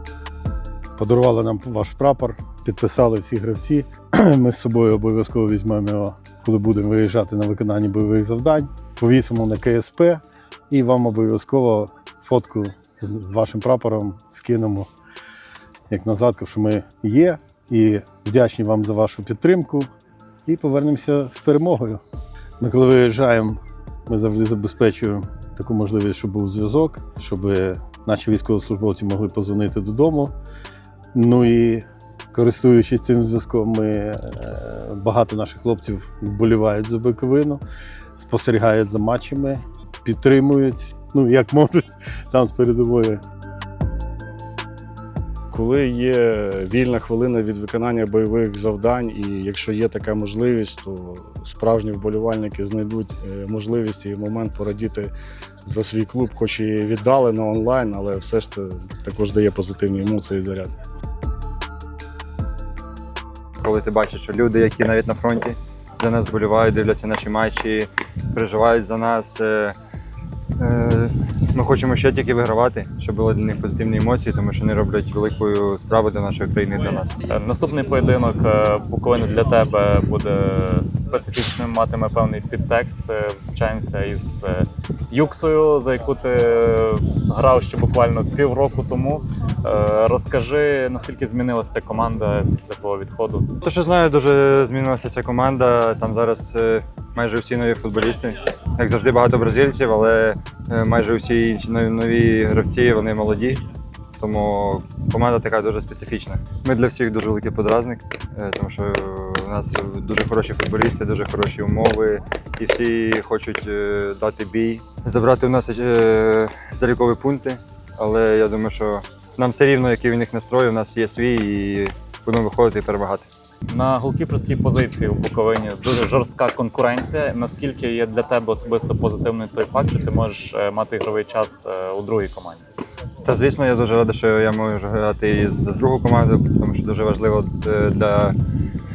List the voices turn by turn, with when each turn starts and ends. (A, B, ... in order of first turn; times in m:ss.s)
0:01.0-0:14.9 A
0:15.9-0:19.9 A
0:20.4-0:22.0 A
0:22.6-0:30.3 A
0:31.1-0:37.6 A
0:38.1-0:43.2 A
0:45.5-0:55.1 B
0:55.6-1:00.7 B
1:03.6-1:09.8 C
1:10.6-1:17.2 C
1:17.3-1:33.6 D
1:33.6-1:43.6 C
1:44.2-2:03.3 C
2:03.7-2:12.6 D
2:13.2-2:18.4 C